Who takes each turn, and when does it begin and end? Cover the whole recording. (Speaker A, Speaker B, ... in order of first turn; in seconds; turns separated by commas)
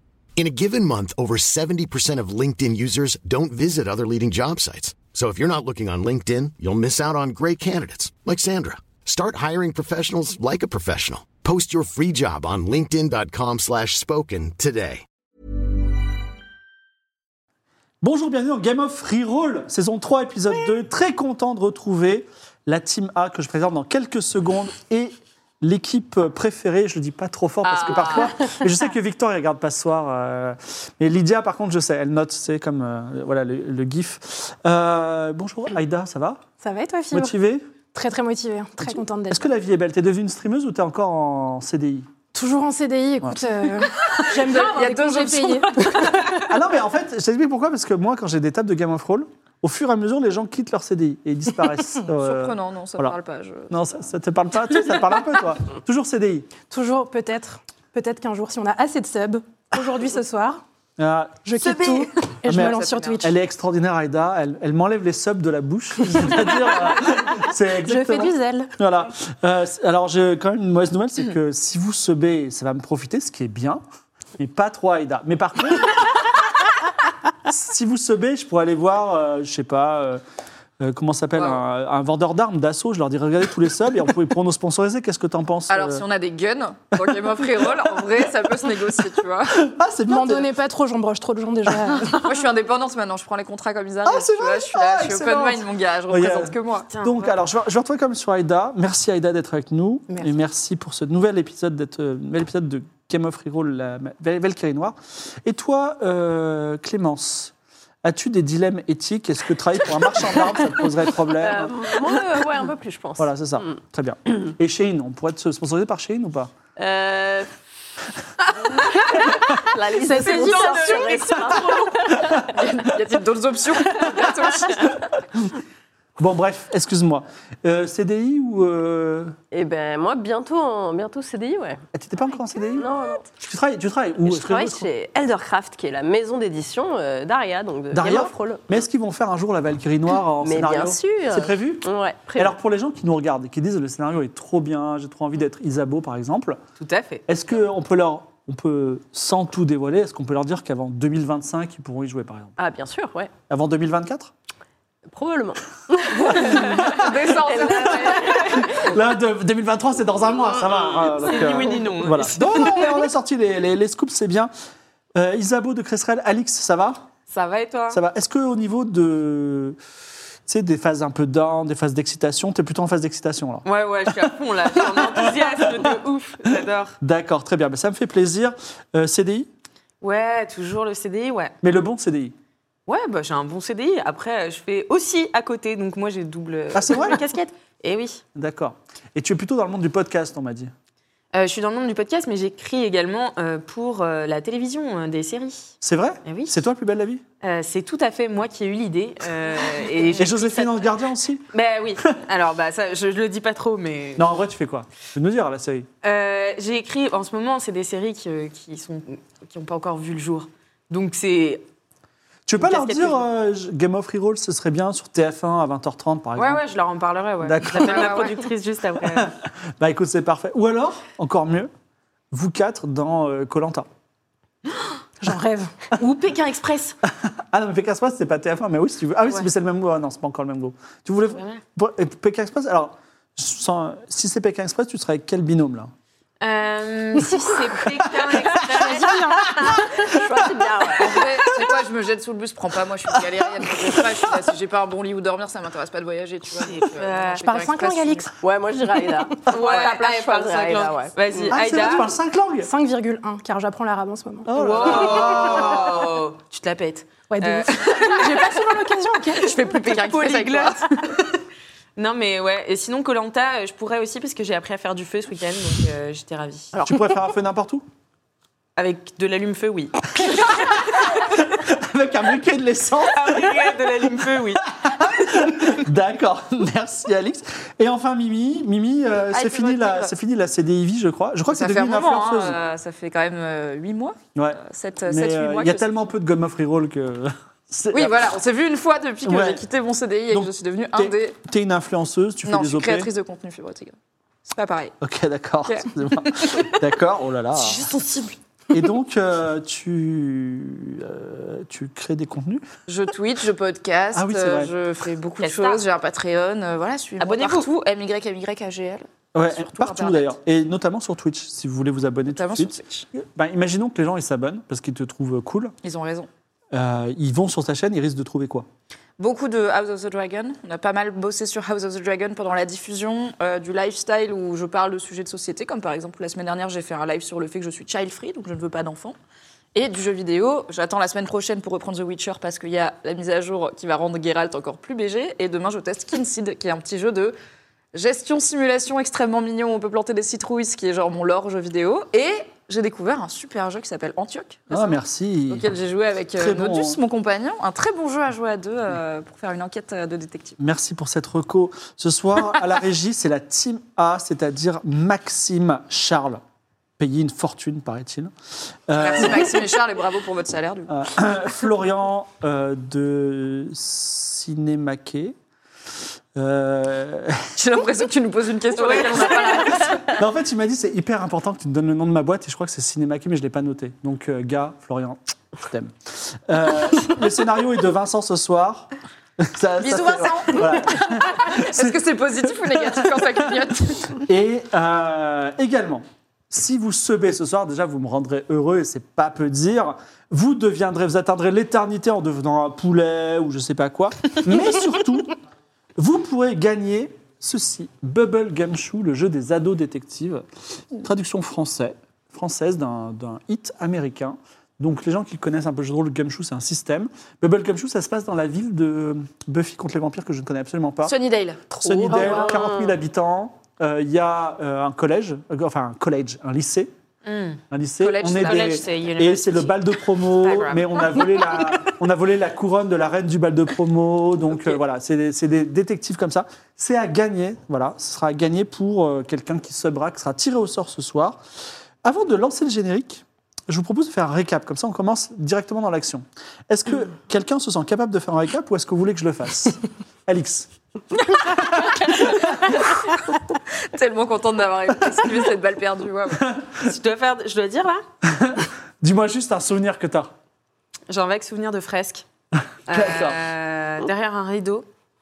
Speaker A: 0.4-15.0, Speaker B: 18.0-36.4, Speaker C: 27.7-28.6, Speaker D: 36.6-37.3, Speaker B: 37.1-37.6, Speaker D: 37.9-39.4, Speaker B: 39.3-42.1, Speaker D: 42.3-46.5, Speaker C: 44.0-46.1, Speaker B: 46.0-53.1, Speaker C: 52.2-53.7, Speaker B: 53.7-56.5, Speaker D: 56.7-60.6, Speaker B: 61.0-61.8, Speaker D: 61.4-63.3, Speaker B: 62.5-73.8, Speaker C: 62.5-63.2, Speaker D: 67.8-68.7, Speaker B: 74.4-76.2, Speaker B: 77.5-80.2, Speaker B: 80.8-86.0, Speaker C: 85.7-89.6, Speaker B: 87.0-87.7, Speaker B: 89.5-90.5, Speaker D: 90.1-92.2, Speaker C: 92.2-96.9, Speaker B: 94.0-107.5, Speaker E: 96.9-97.4, Speaker B: 108.0-111.8, Speaker F: 111.3-113.7, Speaker B: 113.2-116.5, Speaker F: 116.8-117.5, Speaker F: 118.5-122.5, Speaker D: 120.0-121.3, Speaker E: 120.1-122.2, Speaker C: 122.5-125.0, Speaker B: 126.2-129.3, Speaker F: 129.5-131.8, Speaker B: 131.9-134.9, Speaker F: 132.7-133.3, Speaker F: 134.2-138.6, Speaker B: 137.9-146.6, Speaker F: 140.4-142.5, Speaker E: 146.8-147.2, Speaker B: 147.3-152.5, Speaker F: 152.6-153.3, Speaker B: 153.5-154.3, Speaker F: 155.1-158.7, Speaker B: 156.3-156.9, Speaker C: 156.3-158.7, Speaker B: 158.3-164.5, Speaker E: 161.0-163.0, Speaker B: 165.1-167.1, Speaker E: 167.3-168.0, Speaker B: 167.9-169.8, Speaker B: 170.4-175.9, Speaker E: 173.6-176.9, Speaker B: 176.5-179.5, Speaker E: 180.0-181.5, Speaker B: 181.6-182.3, Speaker E: 182.9-188.2, Speaker B: 186.7-187.2, Speaker B: 188.3-190.7, Speaker E: 191.3-196.6, Speaker B: 195.8-197.2, Speaker E: 197.4-200.9, Speaker B: 200.0-201.5, Speaker E: 201.5-204.3, Speaker B: 204.2-205.9, Speaker E: 206.0-211.7, Speaker B: 212.5-216.6, Speaker E: 212.6-213.2, Speaker E: 216.3-219.3, Speaker B: 217.4-218.3, Speaker C: 217.8-218.4, Speaker B: 219.0-221.7, Speaker B: 222.3-223.9, Speaker D: 225.2-225.7, Speaker E: 226.0-226.9, Speaker B: 227.1-235.9, Speaker E: 231.3-231.6, Speaker E: 236.4-239.8, Speaker B: 238.1-238.9, Speaker D: 238.6-239.6, Speaker F: 240.0-241.2, Speaker C: 241.0-248.3, Speaker E: 246.6-247.7, Speaker D: 247.4-248.3, Speaker F: 248.4-251.8, Speaker E: 249.4-252.1, Speaker C: 249.6-250.0, Speaker B: 251.5-252.7, Speaker D: 252.6-254.5, Speaker B: 254.4-256.1, Speaker E: 254.5-258.6, Speaker D: 257.3-259.6, Speaker C: 259.4-260.9, Speaker E: 259.6-261.2, Speaker E: 261.9-266.7, Speaker B: 266.8-267.8, Speaker E: 268.8-271.1, Speaker B: 271.4-273.8, Speaker E: 273.1-275.5, Speaker B: 274.8-282.6, Speaker C: 279.3-280.1, Speaker C: 281.5-285.9, Speaker B: 284.4-288.3, Speaker C: 287.9-291.4, Speaker B: 289.2-289.6, Speaker B: 290.3-293.1, Speaker C: 292.4-294.9, Speaker B: 295.0-297.9, Speaker C: 295.7-296.7, Speaker B: 298.7-302.6, Speaker C: 302.9-310.3, Speaker B: 304.1-304.7, Speaker E: 305.4-305.8, Speaker E: 307.2-307.7, Speaker B: 309.3-315.7, Speaker C: 312.3-313.1, Speaker C: 315.8-316.3, Speaker B: 316.7-318.6, Speaker C: 319.2-329.1, Speaker C: 329.7-337.3, Speaker C: 337.9-344.9, Speaker B: 344.7-345.7, Speaker C: 345.5-350.6, Speaker B: 346.3-347.0, Speaker B: 350.6-356.4, Speaker B: 357.0-358.3, Speaker B: 358.9-359.6, Speaker C: 359.0-360.9, Speaker B: 360.9-365.4, Speaker B: 366.4-367.5, Speaker C: 367.6-370.1, Speaker E: 368.8-369.9, Speaker B: 370.2-382.0, Speaker C: 379.8-384.2, Speaker B: 382.5-383.4, Speaker B: 384.2-395.4, Speaker B: 396.0-411.1, Speaker C: 411.0-412.4, Speaker B: 411.8-416.9, Speaker F: 411.9-412.9, Speaker E: 417.2-417.6, Speaker B: 417.7-431.4, Speaker C: 418.0-418.8, Speaker E: 418.2-421.9, Speaker B: 432.0-440.7, Speaker B: 441.8-442.4, Speaker C: 442.0-443.1, Speaker C: 443.9-446.5, Speaker E: 446.8-448.0, Speaker B: 448.3-450.3, Speaker E: 451.1-452.2, Speaker B: 452.9-453.4, Speaker E: 452.9-454.9